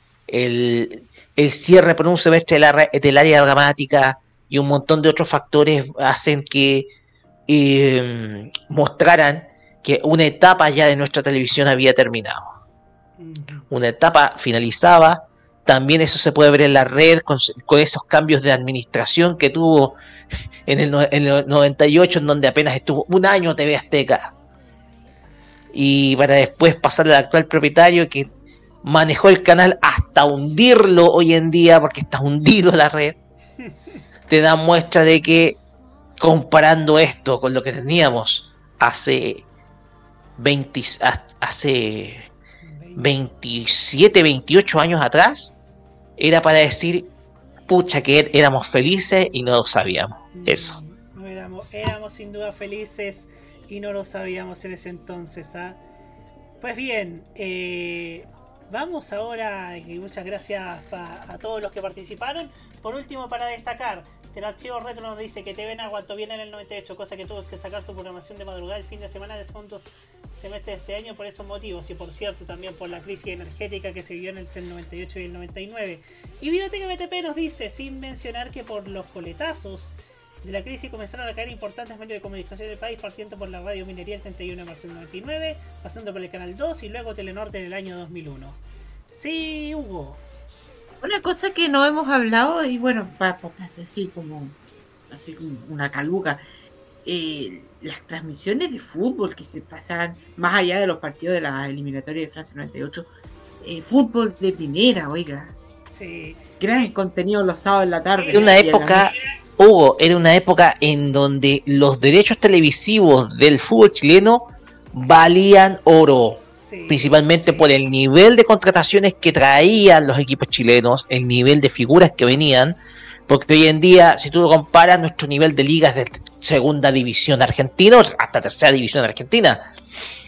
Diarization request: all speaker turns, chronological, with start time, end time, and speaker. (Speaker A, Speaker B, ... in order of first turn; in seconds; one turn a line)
Speaker A: 0.3-6.9
Speaker A: 7.5-12.5
Speaker B: 13.2-13.7
Speaker A: 13.7-20.0
Speaker A: 20.7-24.3
Speaker A: 25.7-28.3
Speaker A: 28.8-33.2
Speaker A: 34.3-35.6
Speaker A: 36.2-39.5
Speaker A: 40.4-42.3
Speaker B: 42.6-43.1
Speaker A: 43.0-45.6
Speaker A: 46.2-47.1
Speaker A: 47.7-50.8
Speaker B: 50.4-55.8
Speaker B: 56.6-88.6
Speaker B: 89.1-90.2
Speaker C: 91.0-94.6
Speaker C: 95.1-96.4
Speaker C: 97.0-103.1
Speaker C: 103.6-105.5
Speaker B: 105.9-106.5
Speaker C: 106.6-109.1
Speaker B: 108.2-108.6
Speaker A: 108.3-122.8
Speaker B: 116.6-117.7
Speaker A: 123.3-129.7